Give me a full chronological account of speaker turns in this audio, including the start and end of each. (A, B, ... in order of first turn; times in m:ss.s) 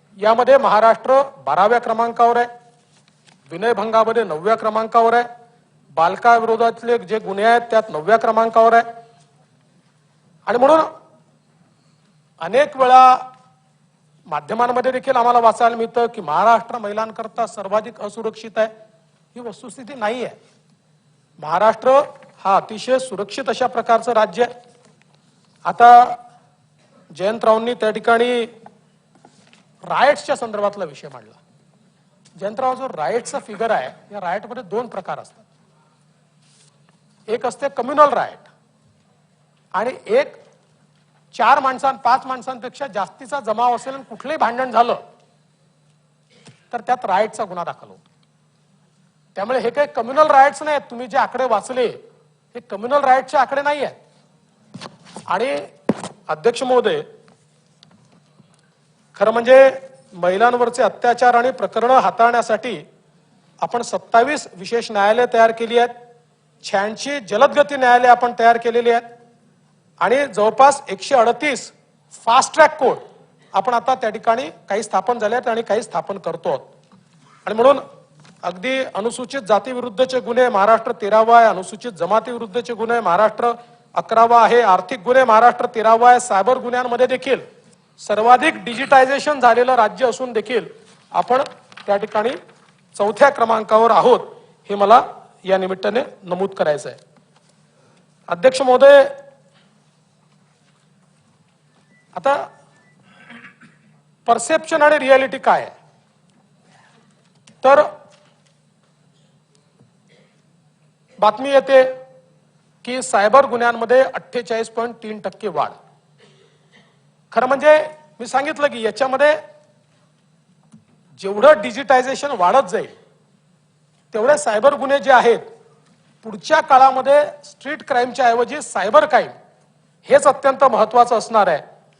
0:00.2-0:02.5 A
0:03.5-0:05.2 A
0:05.9-0:08.8 A
0:10.4-0:10.9 A
0:12.4-0:13.2 A
0:14.3-0:18.7 A
0:19.3-0:20.4 A
0:21.4-0:24.5 A
0:25.6-0:26.2 A
0:27.1-0:28.5 A
0:29.9-0:31.4 A
0:32.4-0:35.5 A
0:37.3-0:38.5 A
0:39.7-0:40.4 A
0:41.3-0:45.0 A
0:46.7-0:48.0 A
0:49.3-0:52.0 A
0:52.5-0:54.0 A
0:55.3-0:55.6 A
0:56.3-0:57.0 A
0:59.1-1:02.8 A
1:03.6-1:05.9 A
1:06.6-1:09.0 A
1:10.0-1:13.0 A
1:13.5-1:16.7 A
1:17.4-1:17.8 A
1:18.4-1:27.4 A
1:28.0-1:32.4 A
1:32.9-1:37.0 A
1:38.3-1:39.1 A
1:42.1-1:42.5 A
1:44.2-1:45.7 A
1:47.6-1:47.9 A
1:51.2-1:51.9 A
1:52.8-1:55.8 A
1:57.3-1:59.4 A
2:01.2-2:03.0 A
2:04.1-2:05.4 A
2:06.2-2:09.3 A
2:10.0-2:11.6 A